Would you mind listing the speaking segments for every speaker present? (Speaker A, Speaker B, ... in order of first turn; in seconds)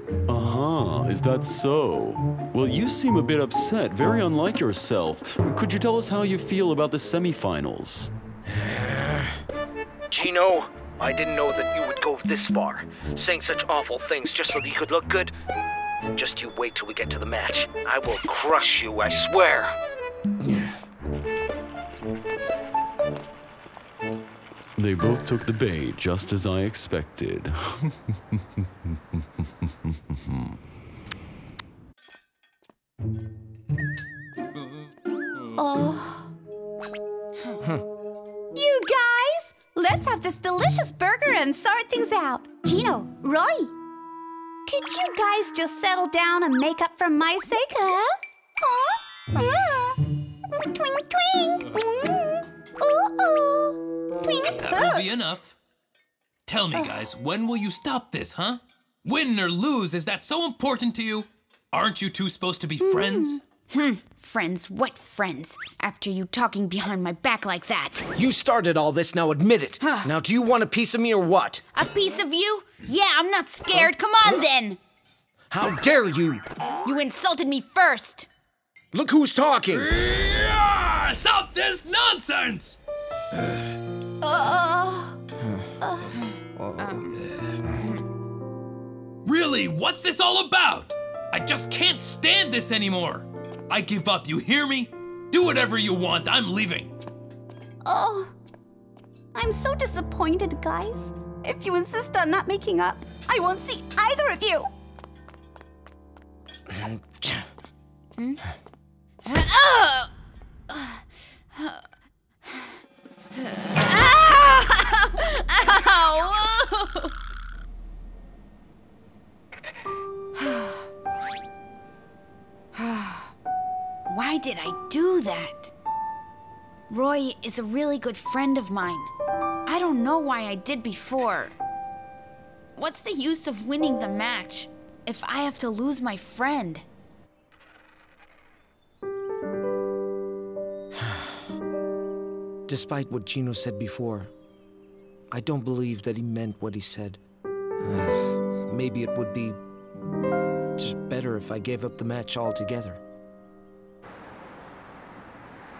Speaker A: 0.3-8.1, 24.8-27.9, 29.9-30.6
Speaker B: 8.6-9.2, 10.1-15.3, 16.1-19.7, 20.4-20.7, 68.1-71.6, 75.5-76.4, 78.9-79.9, 85.4-85.7, 86.6-87.0, 142.7-144.3, 145.3-147.2, 147.8-149.6, 150.8-153.0
Speaker C: 35.6-36.2, 38.5-43.7, 44.7-50.0, 50.5-55.0, 62.8-63.4, 84.2-85.1, 85.8-86.1, 97.8-98.3, 99.3-104.7
Speaker D: 54.5-55.5, 56.5-63.4, 79.7-82.8, 87.2-87.5, 89.2-96.9
Speaker E: 63.7-68.0, 69.8-70.1, 71.7-74.8, 76.8-78.3, 86.8-87.1, 109.2-110.1, 110.7-111.0, 111.5-111.8, 113.3-117.1, 120.4-120.7, 122.8-123.3, 124.1-125.7, 126.9-129.1, 129.7-131.5, 132.8-136.8